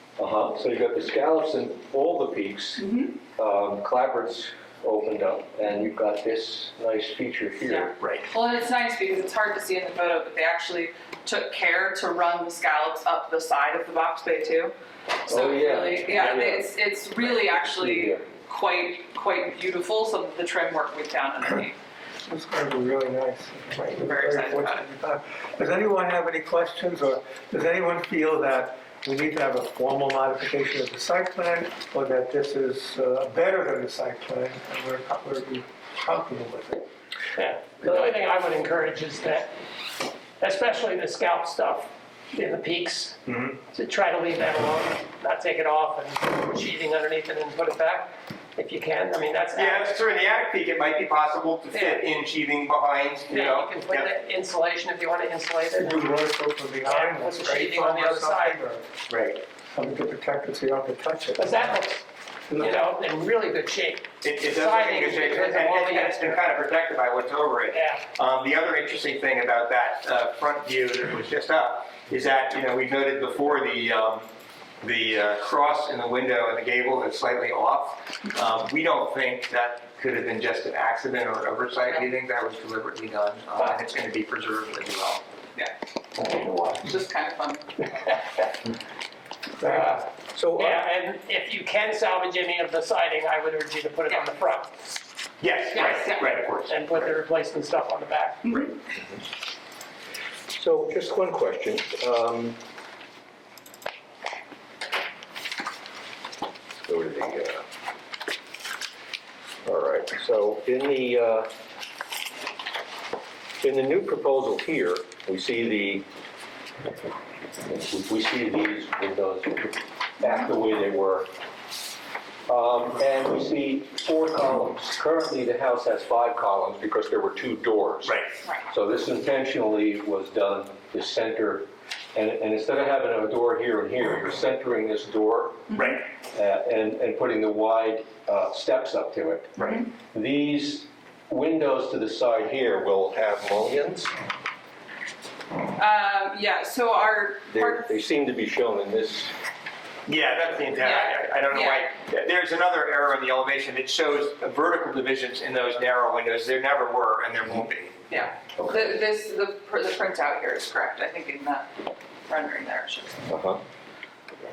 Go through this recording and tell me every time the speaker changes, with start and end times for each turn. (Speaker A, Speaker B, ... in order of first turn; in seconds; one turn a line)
Speaker A: 0.2-8.0
Speaker B: 2.8-3.1
Speaker B: 7.7-21.8
Speaker C: 8.0-8.3
Speaker A: 15.3-18.3
Speaker D: 22.2-36.8
Speaker B: 23.8-24.9
Speaker E: 37.3-39.5
Speaker E: 40.4-50.0
Speaker C: 43.3-43.5
Speaker C: 49.5-54.1
Speaker E: 51.7-52.1
Speaker E: 53.3-56.2
Speaker D: 55.7-58.8
Speaker E: 56.8-58.6
Speaker C: 59.1-59.4
Speaker D: 59.7-61.8
Speaker E: 61.4-66.4
Speaker D: 62.5-62.9
Speaker C: 64.2-74.3
Speaker E: 67.7-68.0
Speaker C: 74.8-85.2
Speaker E: 86.2-86.8
Speaker B: 86.8-87.8
Speaker E: 88.2-88.4
Speaker E: 89.6-94.7
Speaker A: 90.3-90.8
Speaker C: 95.4-97.2
Speaker E: 95.7-98.6
Speaker B: 95.8-96.3
Speaker A: 100.5-102.6
Speaker A: 106.7-107.6
Speaker A: 109.6-111.5
Speaker A: 113.6-116.1
Speaker A: 117.6-121.3
Speaker A: 122.5-135.7
Speaker C: 128.0-128.3
Speaker C: 135.7-136.0
Speaker A: 136.3-144.1
Speaker C: 139.6-139.8
Speaker B: 145.8-147.9
Speaker A: 147.5-149.3
Speaker C: 150.1-157.9
Speaker B: 150.8-151.9
Speaker B: 158.1-163.2
Speaker A: 163.3-163.6